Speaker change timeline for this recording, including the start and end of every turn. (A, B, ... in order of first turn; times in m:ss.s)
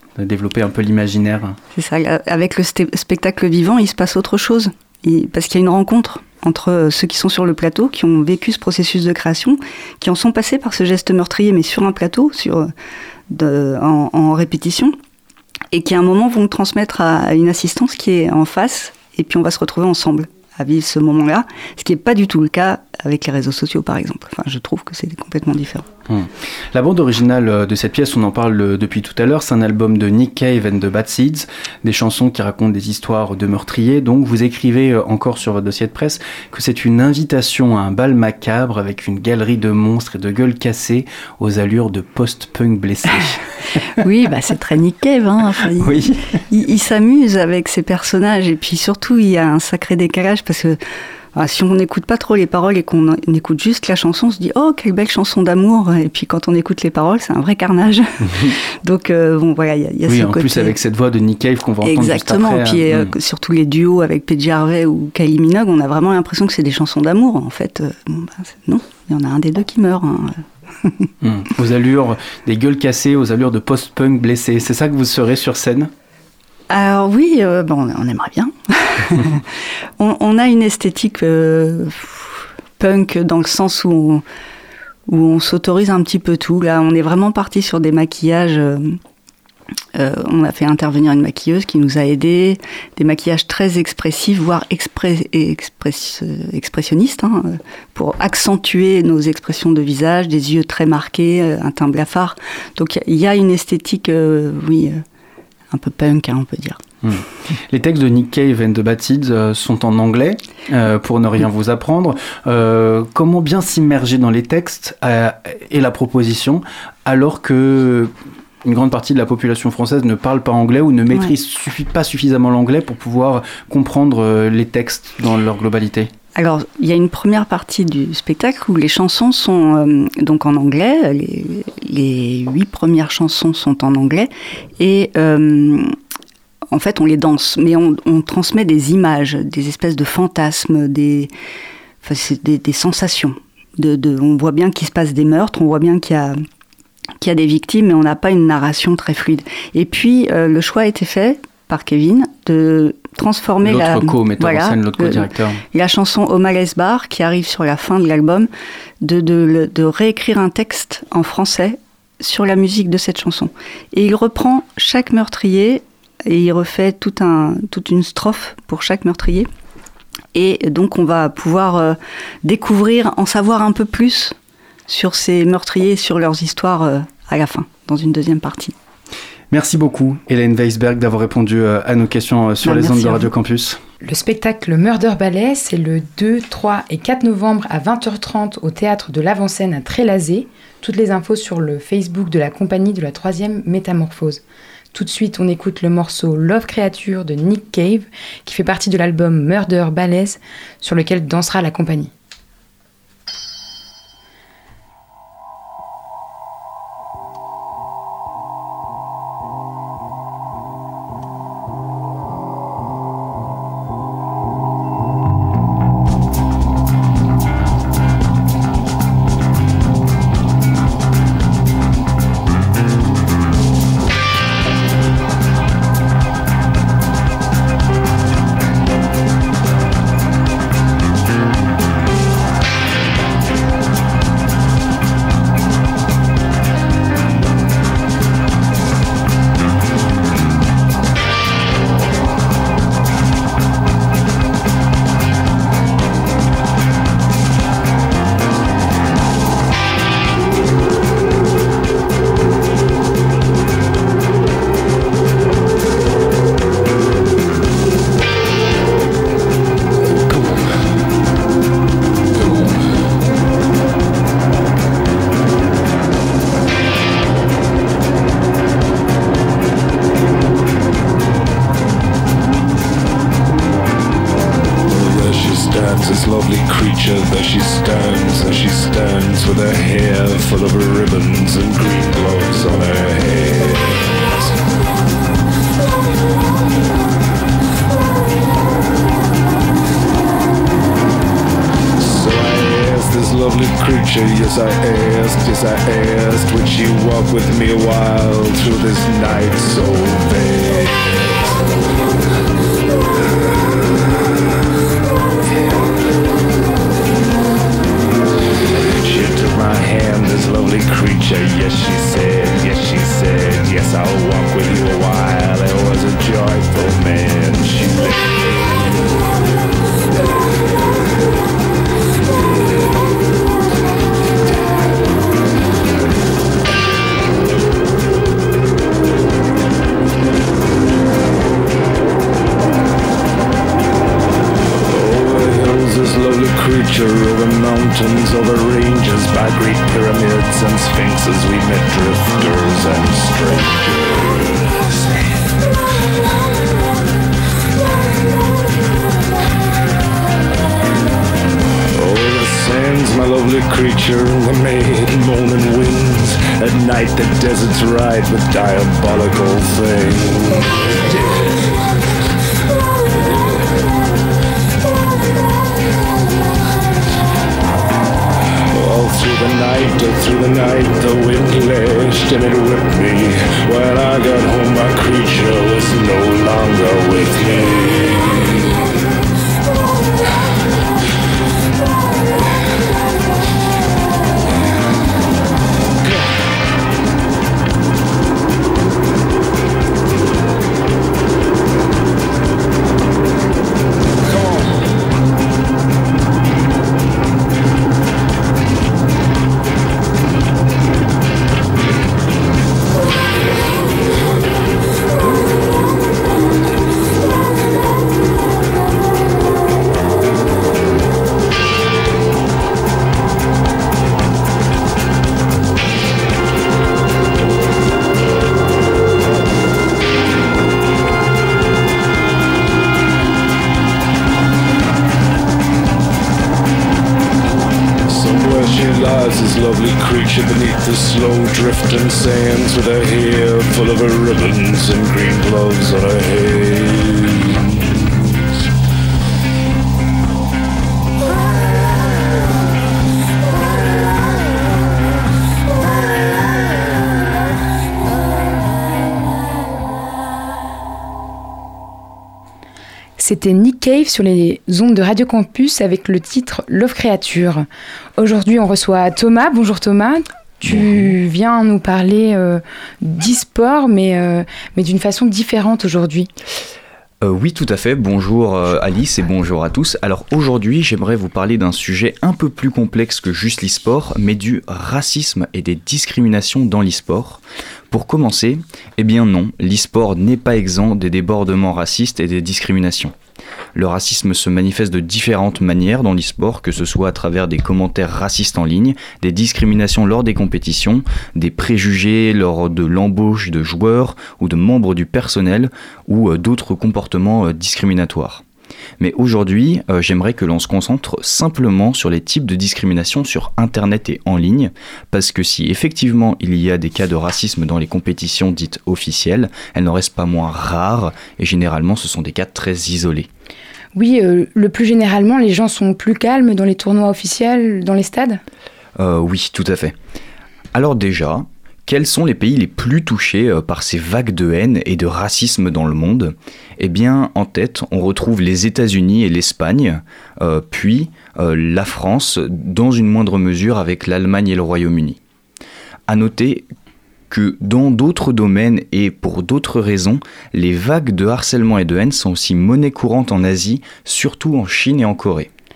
0:00.2-0:01.6 A
0:01.7-0:12.7 B
0:13.3-0:15.0 B
0:15.7-0:25.9 B
0:26.1-0:43.5 A
0:44.0-0:50.8 B
0:51.3-1:00.8 B
1:00.1-1:03.1 A
1:01.8-1:11.1 B
1:11.2-1:15.9 A
1:16.7-1:24.2 B
1:25.1-1:29.0 B
1:30.0-1:45.0 B
1:45.7-1:46.8 B
1:47.0-1:58.1 A
1:58.6-2:06.1 A
2:06.4-2:15.9 B
2:16.7-2:21.3 B
2:22.0-2:26.4 B
2:27.2-2:38.5 B
2:33.6-2:35.6 A
2:39.0-2:49.5 B
2:50.3-2:54.4 B
2:54.9-2:58.8 B
2:59.5-3:03.8 A
3:02.6-3:03.3 B
3:04.0-3:14.4 C
3:14.9-3:22.1 C
4:34.9-4:44.5 D
4:52.0-5:01.5 D
5:09.0-5:19.1 D
5:34.9-5:45.1 D
5:51.9-6:01.7 D
6:03.1-6:03.7 D
6:08.7-6:18.8 D
7:08.1-7:17.9 D
7:33.2-7:37.6 C
7:38.2-7:46.3 C
7:40.7-7:41.1 E
7:47.2-8:03.1 E
8:03.8-8:18.4 E
8:19.0-8:33.3 E
8:34.0-8:38.4 C
8:39.0-8:40.0 E
8:40.7-8:55.2 E
8:56.1-8:56.7 E
8:57.3-9:05.5 E